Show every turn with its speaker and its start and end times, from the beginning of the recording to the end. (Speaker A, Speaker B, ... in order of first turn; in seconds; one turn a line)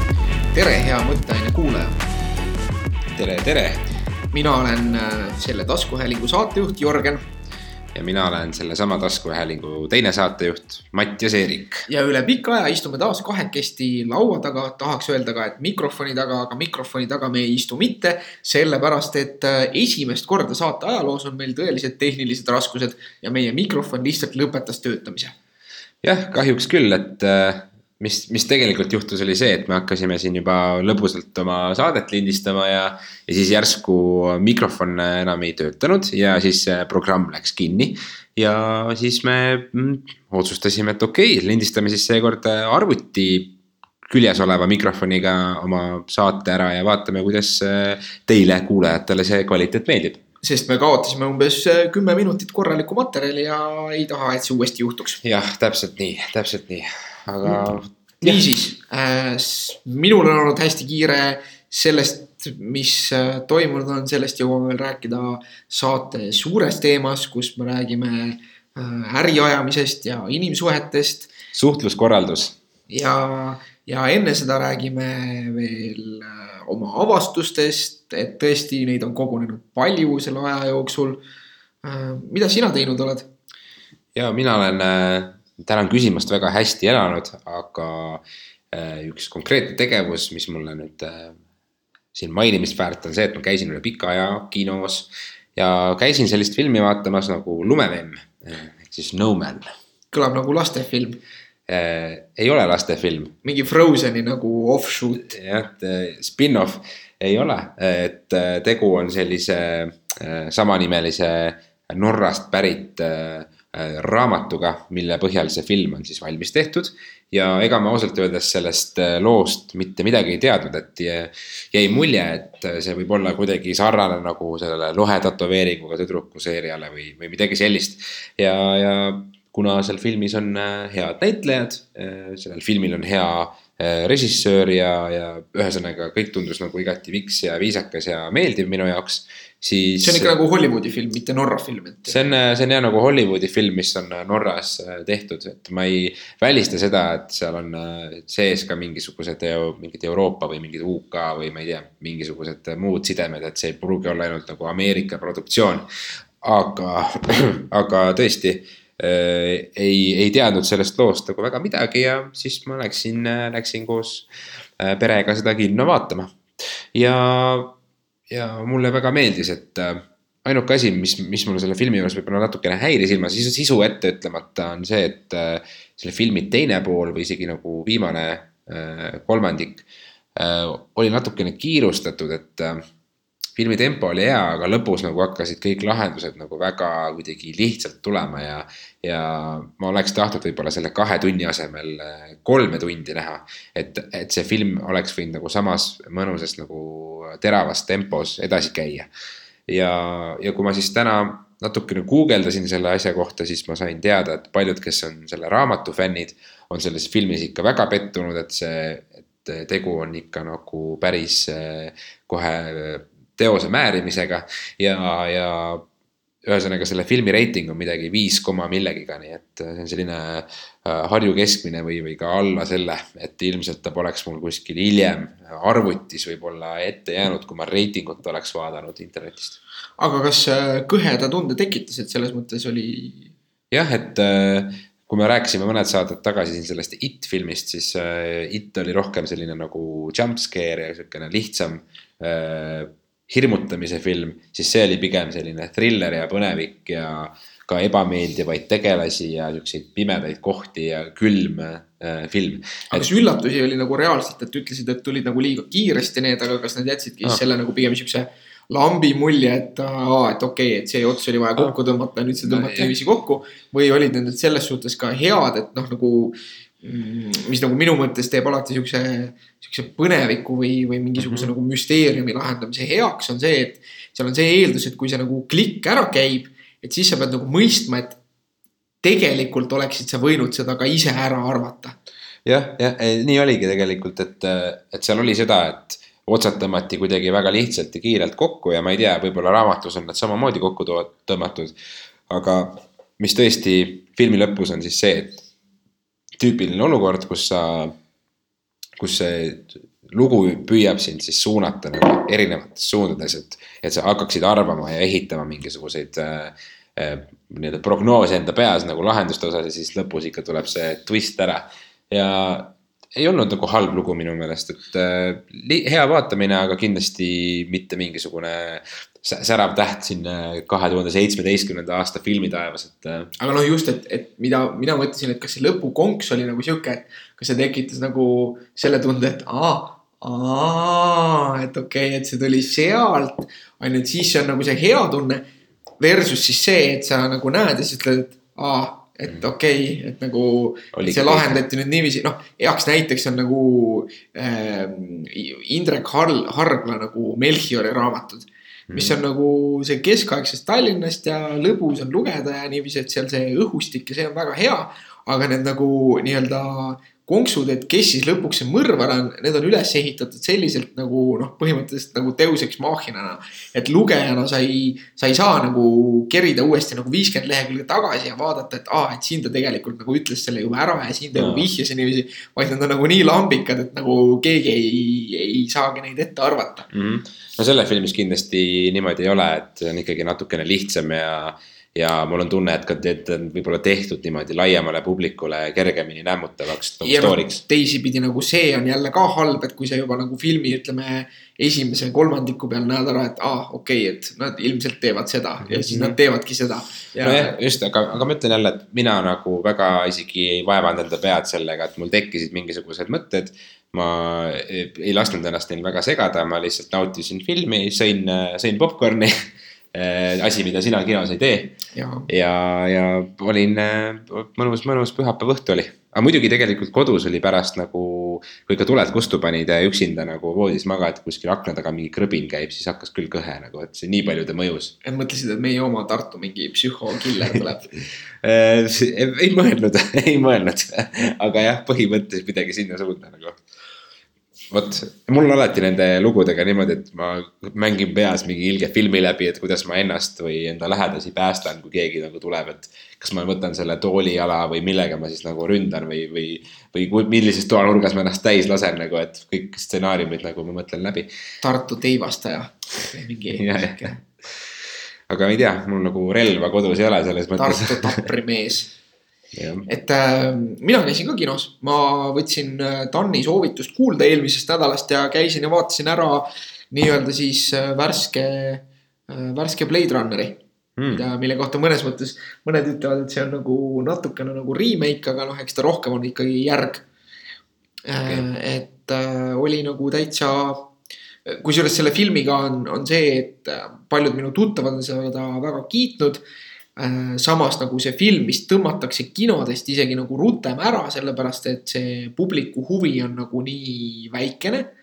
Speaker A: 0.5-2.0
Speaker B: 3.1-3.9
Speaker A: 4.3-7.2
Speaker B: 7.9-11.9
Speaker A: 11.9-25.3
Speaker B: 26.0-43.5
Speaker B: 44.0-50.2
Speaker A: 50.4-55.2
Speaker B: 55.2-58.4
Speaker A: 58.2-71.3
Speaker B: 71.5-72.5
Speaker A: 72.9-81.2
Speaker A: 81.8-83.3
Speaker B: 84.1-91.4
Speaker B: 92.1-99.7
Speaker A: 100.1-101.2
Speaker B: 101.7-103.3
Speaker A: 103.4-105.3
Speaker B: 105.2-140.3
Speaker A: 140.0-142.2
Speaker B: 142.1-155.9
Speaker B: 156.4-167.7
Speaker B: 168.3-182.8
Speaker B: 183.6-199.1
Speaker B: 199.7-215.8
Speaker B: 216.4-229.6
Speaker A: 230.0-233.3
Speaker B: 233.7-253.1
Speaker A: 252.9-278.2
Speaker B: 262.4-262.9
Speaker B: 271.2-271.5
Speaker A: 279.0-282.0
Speaker B: 282.4-291.7
Speaker B: 292.3-295.4
Speaker B: 296.4-297.9
Speaker B: 299.0-323.3
Speaker A: 323.4-335.4
Speaker A: 336.0-376.9
Speaker B: 340.9-341.6
Speaker B: 348.9-349.2
Speaker B: 371.3-371.7
Speaker B: 376.9-387.6
Speaker A: 387.0-397.6
Speaker B: 395.7-396.2
Speaker B: 397.2-424.9
Speaker A: 411.9-412.3
Speaker A: 425.0-427.9
Speaker B: 428.4-433.6
Speaker B: 434.7-451.3
Speaker A: 451.6-454.2
Speaker B: 453.5-454.2
Speaker B: 455.3-458.2
Speaker A: 457.6-458.9
Speaker B: 459.5-459.9
Speaker A: 459.9-470.6
Speaker B: 471.0-471.2
Speaker A: 471.1-477.1
Speaker A: 478.1-480.9
Speaker A: 481.4-486.4
Speaker A: 486.9-494.9